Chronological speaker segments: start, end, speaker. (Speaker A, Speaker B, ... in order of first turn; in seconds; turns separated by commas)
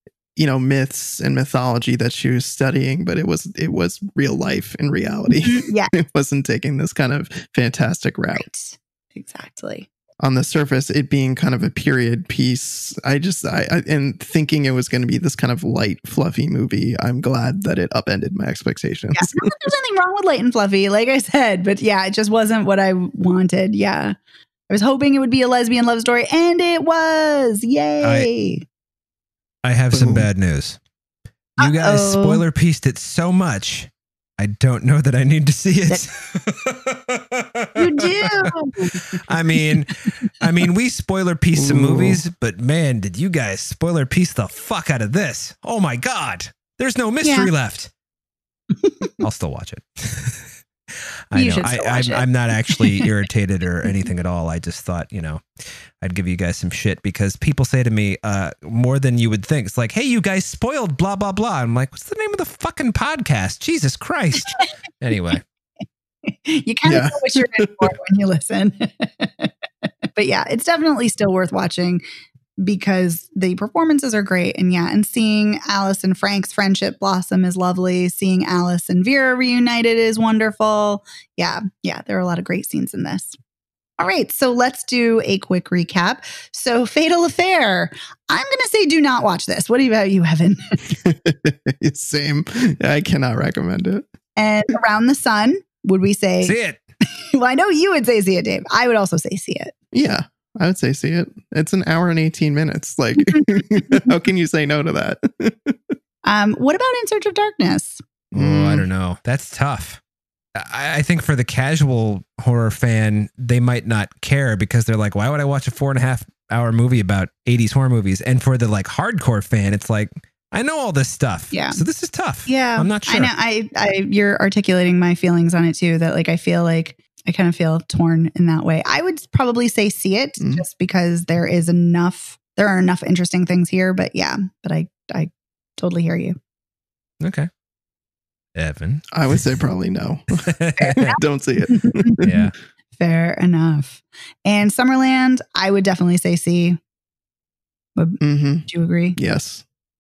Speaker A: 0.4-8.5, Speaker B: 5.3-5.9, Speaker B: 8.4-9.9, Speaker A: 10.2-19.5, Speaker B: 19.2-24.1, Speaker B: 24.7-28.6, Speaker C: 28.0-28.3, Speaker C: 29.6-30.8, Speaker A: 29.9-30.2, Speaker B: 31.6-32.4, Speaker C: 31.6-38.5, Speaker B: 37.8-39.0, Speaker C: 39.2-47.9, Speaker A: 41.6-42.2, Speaker B: 47.2-47.5, Speaker B: 48.8-49.1, Speaker C: 49.2-50.5, Speaker C: 51.3-55.4, Speaker B: 51.3-53.1, Speaker C: 56.0-65.4, Speaker B: 66.3-69.5, Speaker A: 66.8-67.9, Speaker B: 70.2-72.0, Speaker B: 72.6-83.4, Speaker B: 84.0-90.8, Speaker A: 91.0-94.1, Speaker B: 94.4-96.6, Speaker C: 96.4-96.8, Speaker B: 97.3-99.7, Speaker A: 99.9-105.9, Speaker B: 106.2-108.0, Speaker A: 108.3-108.9, Speaker C: 108.3-110.0, Speaker C: 110.6-123.3, Speaker B: 121.5-121.8, Speaker B: 122.5-136.4, Speaker A: 130.4-130.7, Speaker C: 137.2-137.5, Speaker C: 138.6-139.1, Speaker A: 139.1-142.3, Speaker C: 140.4-141.1, Speaker B: 140.8-142.2, Speaker C: 142.2-142.5, Speaker B: 143.0-146.8, Speaker B: 148.0-149.2, Speaker A: 148.2-148.7, Speaker A: 149.2-149.6